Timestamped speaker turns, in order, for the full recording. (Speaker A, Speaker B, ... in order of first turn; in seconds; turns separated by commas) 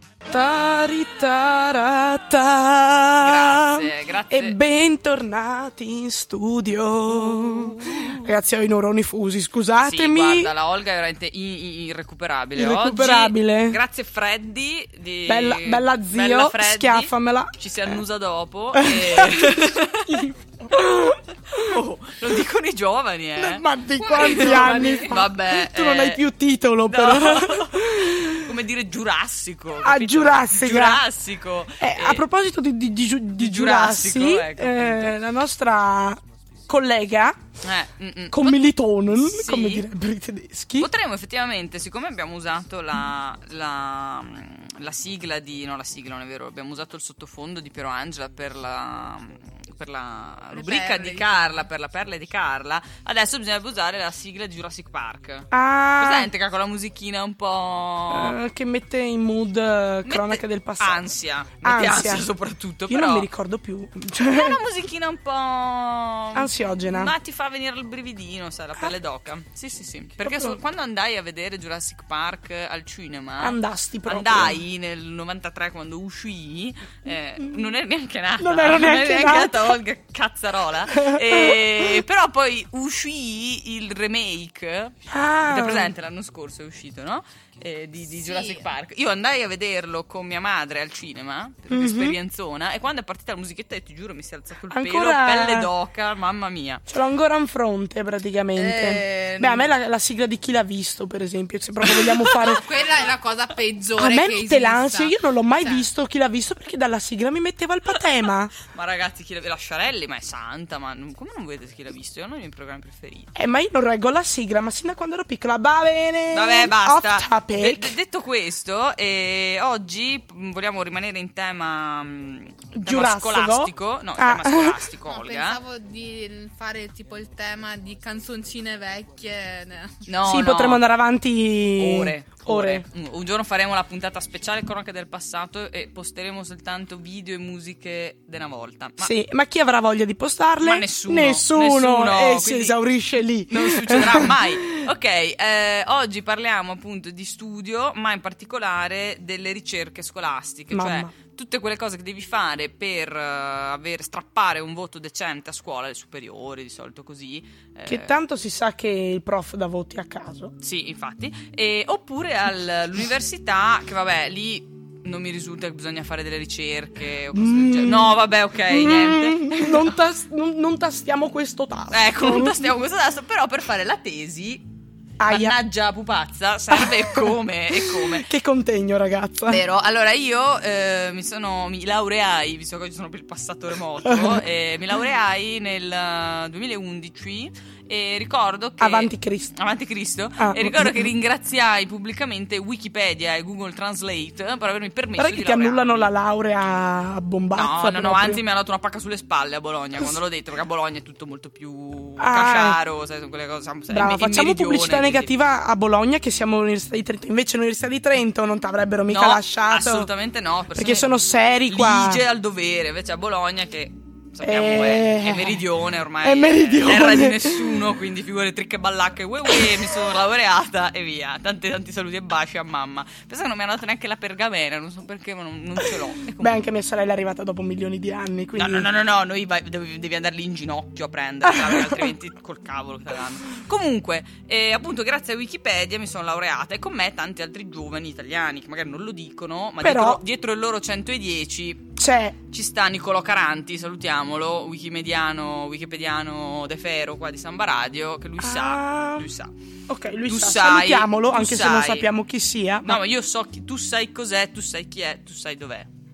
Speaker A: 0.3-10.5, Speaker B: 3.2-4.6, Speaker B: 7.1-8.3, Speaker B: 9.8-20.3, Speaker A: 12.6-13.8, Speaker A: 15.3-17.9, Speaker A: 18.7-21.8, Speaker B: 21.5-26.2, Speaker A: 23.4-28.5, Speaker C: 24.0-25.2, Speaker B: 26.9-32.2, Speaker A: 29.8-31.0, Speaker A: 31.8-37.4, Speaker B: 33.4-35.2, Speaker B: 37.6-39.9, Speaker A: 38.3-40.9, Speaker B: 40.8-58.4, Speaker C: 50.5-51.6, Speaker A: 55.5-56.3, Speaker A: 58.1-62.3, Speaker B: 60.0-63.3, Speaker A: 62.9-64.6, Speaker B: 64.3-96.8, Speaker A: 66.3-67.1, Speaker A: 70.2-70.6, Speaker A: 73.4-74.6, Speaker A: 78.4-79.8, Speaker A: 80.9-82.0, Speaker A: 85.1-85.9, Speaker C: 88.2-88.7, Speaker A: 91.7-92.2, Speaker A: 94.7-95.7, Speaker A: 96.9-102.7, Speaker B: 98.6-99.7, Speaker B: 101.8-102.6, Speaker C: 102.4-105.9, Speaker A: 104.0-108.5, Speaker B: 108.7-113.3, Speaker A: 113.3-118.0, Speaker B: 116.3-125.6, Speaker A: 122.8-124.8, Speaker C: 125.1-130.0, Speaker B: 130.1-130.8, Speaker A: 130.2-132.8, Speaker B: 131.8-139.1, Speaker A: 139.0-144.8, Speaker B: 140.6-142.8, Speaker B: 143.5-158.2, Speaker A: 150.7-151.1, Speaker A: 157.9-160.5, Speaker B: 160.6-169.9, Speaker A: 167.3-172.7, Speaker B: 171.9-174.7, Speaker A: 175.2-175.6, Speaker B: 175.3-178.3, Speaker A: 176.7-179.6, Speaker B: 179.5-196.1, Speaker A: 184.0-184.4, Speaker A: 188.8-189.5, Speaker A: 190.4-191.1, Speaker A: 195.2-198.4, Speaker B: 197.6-205.3, Speaker A: 202.2-202.8, Speaker A: 203.9-210.1, Speaker B: 209.1-211.1, Speaker A: 210.8-212.2, Speaker B: 211.7-226.6, Speaker A: 214.4-215.7, Speaker A: 216.2-217.9, Speaker A: 219.5-219.8, Speaker A: 226.4-228.9, Speaker B: 228.6-241.9, Speaker A: 231.5-232.1, Speaker A: 239.8-240.2, Speaker A: 242.0-242.4, Speaker B: 242.5-249.5, Speaker A: 248.4-249.3, Speaker A: 249.9-253.0, Speaker B: 250.3-252.1, Speaker B: 252.8-255.9